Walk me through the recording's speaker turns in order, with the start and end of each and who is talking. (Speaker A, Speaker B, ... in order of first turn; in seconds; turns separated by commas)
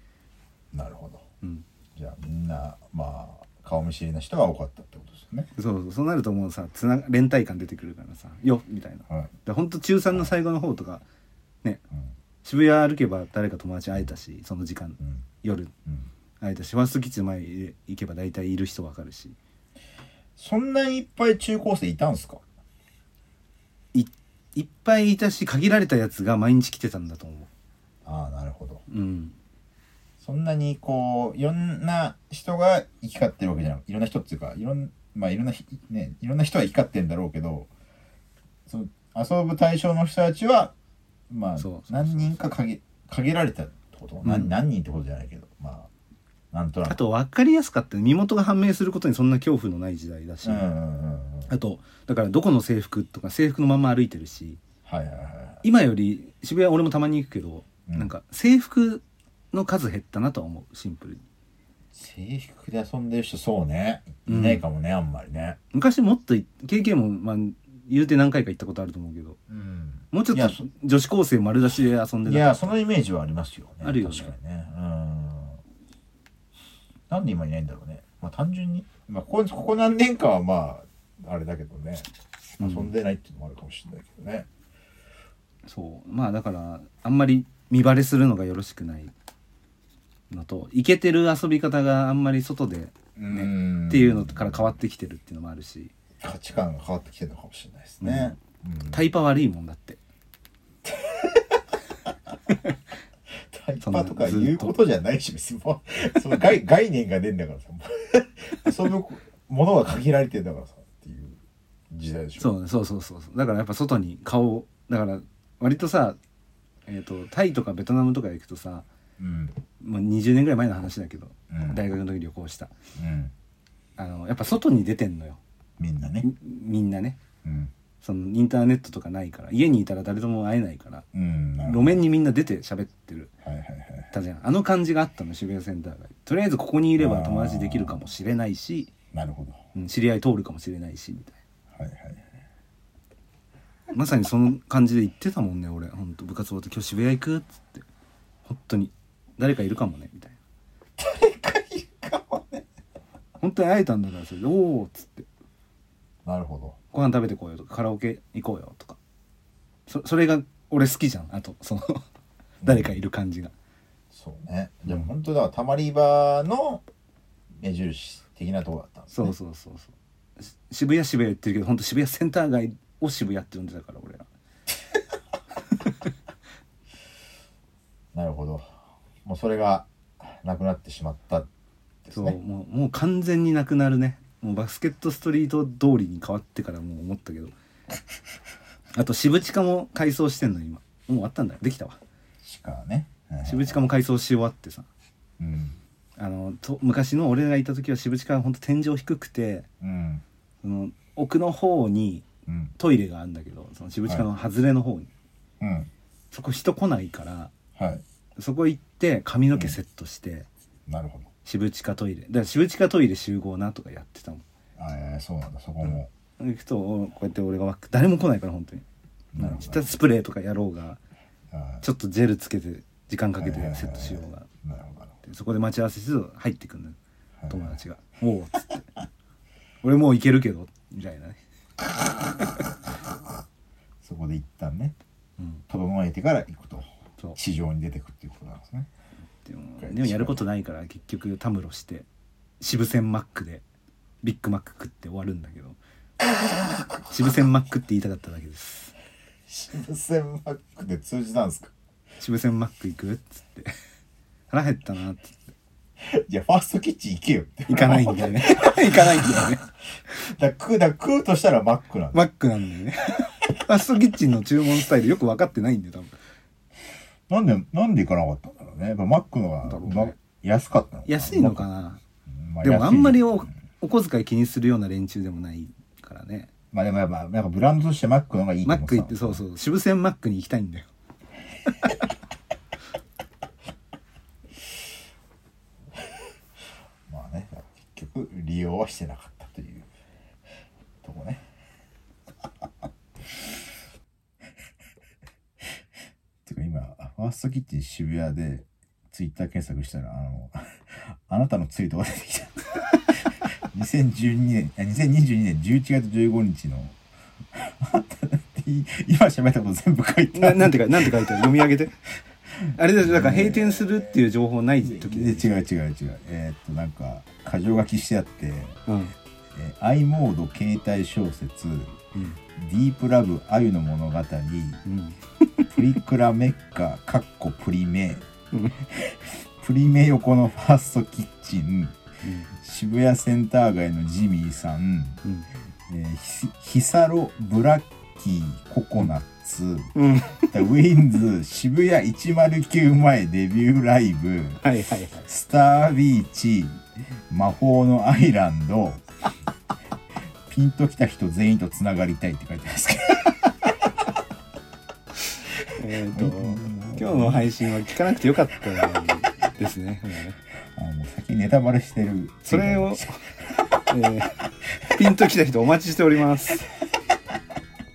Speaker A: 0.7-1.3, Speaker A: 1.9-5.5, Speaker B: 5.6-11.0, Speaker B: 12.4-15.7, Speaker B: 16.4-19.4, Speaker A: 20.4-22.4, Speaker B: 23.9-27.5, Speaker A: 28.1-28.8, Speaker B: 28.9-29.4, Speaker A: 30.2-37.7, Speaker A: 38.7-40.7, Speaker A: 41.3-45.9, Speaker B: 41.6-42.3, Speaker B: 44.2-44.5, Speaker A: 46.5-47.0, Speaker B: 46.9-50.7, Speaker A: 50.4-51.5, Speaker B: 51.5-54.6, Speaker A: 54.9-55.6, Speaker B: 55.6-61.2, Speaker A: 61.9-65.6, Speaker B: 64.3-64.6, Speaker B: 65.7-69.4, Speaker A: 69.5-70.6, Speaker B: 70.1-72.7, Speaker A: 72.2-75.6, Speaker B: 73.8-74.3, Speaker A: 77.1-82.1, Speaker A: 82.6-84.5, Speaker B: 82.6-82.9, Speaker B: 85.7-89.1, Speaker B: 90.3-95.9, Speaker A: 93.2-94.7, Speaker A: 96.2-99.1, Speaker B: 98.0-98.3, Speaker B: 98.9-100.0, Speaker A: 100.8-101.6, Speaker A: 103.5-111.4, Speaker B: 103.8-104.8, Speaker A: 111.9-112.5, Speaker B: 112.4-116.2, Speaker B: 116.9-118.9, Speaker A: 119.2-119.5, Speaker B: 119.8-122.7, Speaker A: 121.5-121.8, Speaker A: 123.0-123.3, Speaker B: 124.0-125.4, Speaker A: 125.8-126.3, Speaker B: 126.2-127.2, Speaker A: 127.4-127.7, Speaker B: 128.0-131.1, Speaker A: 131.1-132.0, Speaker B: 131.6-133.3, Speaker A: 133.4-134.1, Speaker B: 134.1-138.9, Speaker A: 137.0-138.0, Speaker A: 139.1-139.6, Speaker B: 139.8-141.4, Speaker A: 141.7-142.2, Speaker B: 143.9-147.8, Speaker B: 148.5-150.4, Speaker A: 151.0-152.7, Speaker B: 153.4-155.3, Speaker A: 156.2-156.8, Speaker B: 156.9-159.0, Speaker B: 159.9-162.0, Speaker A: 162.6-163.0, Speaker B: 162.7-163.5, Speaker A: 164.1-166.8, Speaker A: 167.6-169.3, Speaker B: 169.1-169.9, Speaker B: 170.4-174.3, Speaker A: 178.1-178.7, Speaker A: 179.2-181.5, Speaker A: 182.1-182.4, Speaker B: 182.1-187.5, Speaker B: 188.9-192.0, Speaker A: 192.4-193.8, Speaker B: 193.4-194.9, Speaker A: 195.4-195.8, Speaker B: 196.2-199.7, Speaker A: 199.8-200.2, Speaker B: 200.6-202.3, Speaker A: 202.5-202.7, Speaker B: 202.8-205.1, Speaker A: 205.6-205.9, Speaker B: 206.3-207.5, Speaker A: 207.8-208.0, Speaker B: 208.4-210.5, Speaker A: 210.9-211.3, Speaker B: 211.4-214.4, Speaker A: 214.8-216.1, Speaker B: 216.4-218.8, Speaker A: 219.3-219.9, Speaker B: 219.4-221.0, Speaker A: 221.5-221.8, Speaker B: 221.8-224.5, Speaker A: 223.4-225.2, Speaker B: 225.2-227.0, Speaker A: 227.4-227.8, Speaker B: 227.5-228.8, Speaker B: 229.8-231.4, Speaker A: 234.0-234.9, Speaker A: 235.7-238.9, Speaker B: 239.4-242.1, Speaker A: 239.8-240.4, Speaker B: 242.6-243.6, Speaker B: 244.2-245.8, Speaker B: 247.1-248.9, Speaker A: 249.5-251.7, Speaker B: 252.2-253.7, Speaker B: 254.5-255.5, Speaker A: 256.0-259.6, Speaker B: 257.7-259.6, Speaker A: 260.1-262.3, Speaker B: 262.1-266.1, Speaker A: 267.3-271.7, Speaker B: 269.6-270.2, Speaker B: 271.1-272.0, Speaker A: 272.3-273.5, Speaker B: 272.6-276.5, Speaker A: 276.7-279.4, Speaker B: 278.6-280.9, Speaker A: 286.0-286.2, Speaker A: 287.1-289.9, Speaker A: 291.0-291.4, Speaker A: 296.4-307.0, Speaker A: 307.5-311.4, Speaker B: 310.3-312.0, Speaker A: 312.6-313.7, Speaker B: 312.8-315.5, Speaker A: 314.8-318.8, Speaker B: 318.9-319.1, Speaker A: 319.5-322.0, Speaker B: 322.1-322.4, Speaker A: 322.6-324.8, Speaker B: 324.9-325.7, Speaker A: 325.7-328.2, Speaker A: 328.8-332.0, Speaker B: 332.2-332.5, Speaker A: 332.6-335.2, Speaker A: 335.9-344.6, Speaker B: 339.9-340.5, Speaker B: 344.6-345.2, Speaker A: 345.2-349.0, Speaker A: 350.5-353.4, Speaker B: 355.8-360.4, Speaker A: 356.1-357.5, Speaker A: 360.7-363.2, Speaker B: 362.5-363.2, Speaker B: 363.9-366.7